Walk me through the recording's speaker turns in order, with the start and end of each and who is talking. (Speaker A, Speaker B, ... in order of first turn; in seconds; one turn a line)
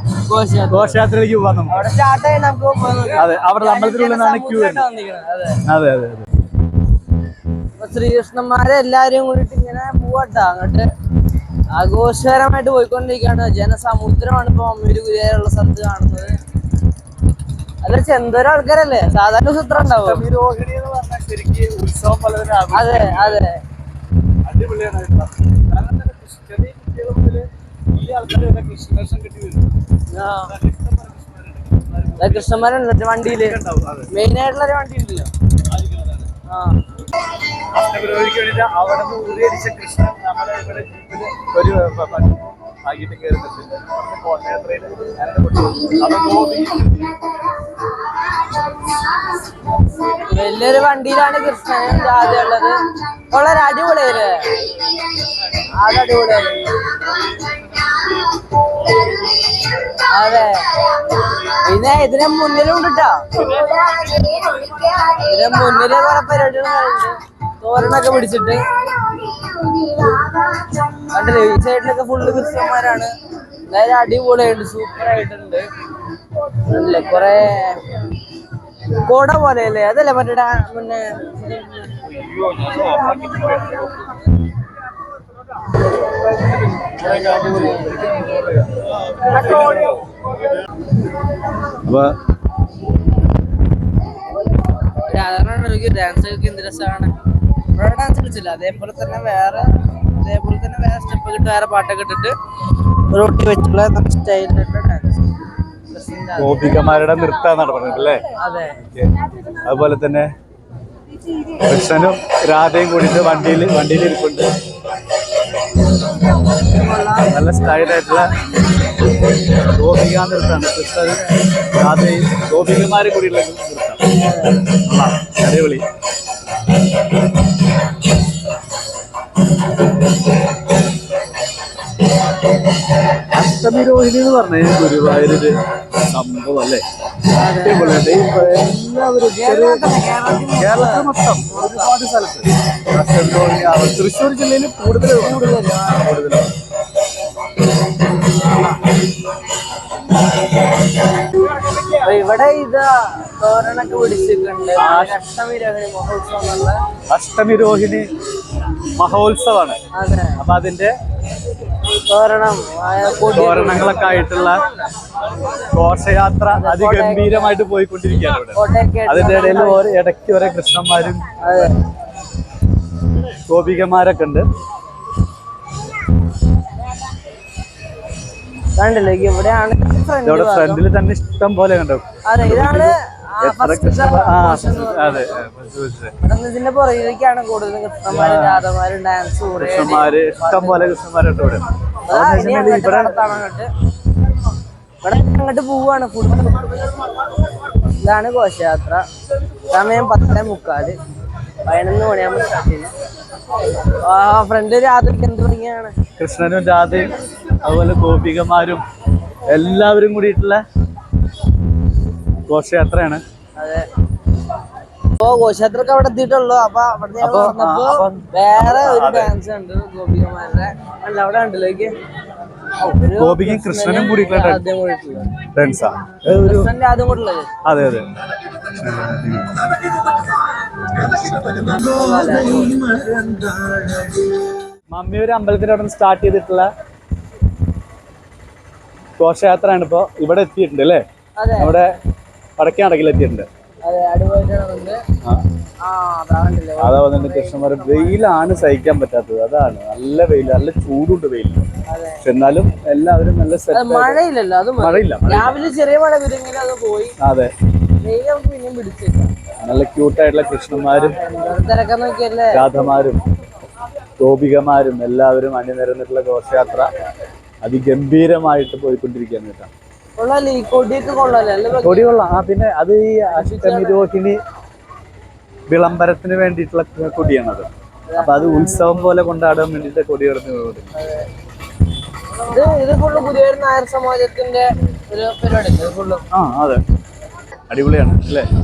Speaker A: 0.3-1.0
Speaker B: 0.7-1.9
Speaker A: 1.7-5.6
Speaker B: 3.1-4.8
Speaker B: 5.6-6.3
Speaker A: 7.8-10.9
Speaker A: 11.7-16.4
Speaker A: 17.8-20.2
Speaker B: 19.9-23.4
Speaker A: 22.7-23.6
Speaker B: 24.4-29.7
Speaker A: 30.1-30.5
Speaker B: 30.5-32.6
Speaker A: 32.2-33.6
Speaker B: 33.2-34.1
Speaker A: 34.1-35.3
Speaker B: 35.7-36.3
Speaker A: 36.5-36.8
Speaker B: 37.7-47.3
Speaker A: 50.2-52.8
Speaker A: 53.3-54.5
Speaker A: 55.8-56.8
Speaker A: 60.1-60.7
Speaker A: 61.6-64.4
Speaker A: 65.0-68.6
Speaker A: 71.0-73.1
Speaker A: 73.7-75.7
Speaker A: 76.7-77.8
Speaker A: 79.0-82.1
Speaker B: 82.4-83.8
Speaker A: 86.9-88.2
Speaker B: 89.4-89.8
Speaker A: 89.4-89.9
Speaker B: 91.8-92.2
Speaker A: 95.0-97.1
Speaker A: 97.7-102.3
Speaker A: 103.1-105.2
Speaker A: 105.9-106.9
Speaker B: 106.4-108.2
Speaker A: 108.4-108.8
Speaker B: 108.8-109.1
Speaker B: 109.6-110.3
Speaker B: 111.6-114.5
Speaker A: 116.7-117.4
Speaker B: 117.3-118.3
Speaker B: 119.7-124.0
Speaker A: 124.1-124.7
Speaker B: 124.7-125.8
Speaker B: 133.3-135.6
Speaker B: 136.1-136.8
Speaker A: 137.3-141.9
Speaker B: 137.6-139.9
Speaker B: 140.5-146.5
Speaker A: 145.2-146.2
Speaker A: 148.4-148.8
Speaker A: 152.0-156.8
Speaker B: 154.8-155.2
Speaker B: 157.1-158.1
Speaker B: 158.8-159.8
Speaker A: 159.9-160.4
Speaker B: 160.4-160.9
Speaker A: 162.1-164.2
Speaker B: 163.3-164.7
Speaker B: 165.6-171.7
Speaker A: 166.5-167.6
Speaker A: 168.6-169.9
Speaker A: 171.4-171.7
Speaker B: 173.5-174.5
Speaker A: 178.8-180.8
Speaker B: 180.2-186.1
Speaker A: 182.3-185.3
Speaker A: 186.2-190.9
Speaker B: 188.1-188.6
Speaker B: 189.6-193.2
Speaker A: 192.1-193.7
Speaker A: 195.0-196.8
Speaker A: 198.0-199.1
Speaker A: 199.7-201.0
Speaker A: 201.6-202.9
Speaker A: 204.0-205.9
Speaker B: 206.2-208.8
Speaker B: 209.4-210.6
Speaker B: 212.5-213.2
Speaker A: 213.6-213.9
Speaker A: 215.2-221.9
Speaker B: 217.2-219.3
Speaker A: 222.8-225.3
Speaker B: 222.9-224.6
Speaker B: 225.5-226.7
Speaker A: 226.4-227.5
Speaker B: 227.6-228.1
Speaker B: 228.6-229.7
Speaker B: 230.9-234.2
Speaker A: 231.8-232.7
Speaker B: 234.9-236.7
Speaker B: 239.2-241.0
Speaker A: 241.4-241.7
Speaker B: 241.6-241.9
Speaker B: 242.6-243.5
Speaker A: 243.8-245.0
Speaker A: 245.8-248.2
Speaker B: 246.8-251.7
Speaker A: 251.9-252.2
Speaker B: 252.2-254.2
Speaker A: 253.7-257.1
Speaker B: 254.8-255.6
Speaker B: 257.2-257.5
Speaker A: 258.0-259.3
Speaker B: 259.6-261.2
Speaker A: 261.0-262.7
Speaker B: 262.5-263.2
Speaker B: 264.2-266.9
Speaker B: 267.6-269.7
Speaker A: 270.2-272.2
Speaker B: 271.8-274.4
Speaker A: 273.3-274.0
Speaker B: 275.7-280.9
Speaker A: 278.1-279.1
Speaker A: 280.9-281.3
Speaker A: 282.4-286.2
Speaker B: 286.3-286.8
Speaker B: 287.7-288.5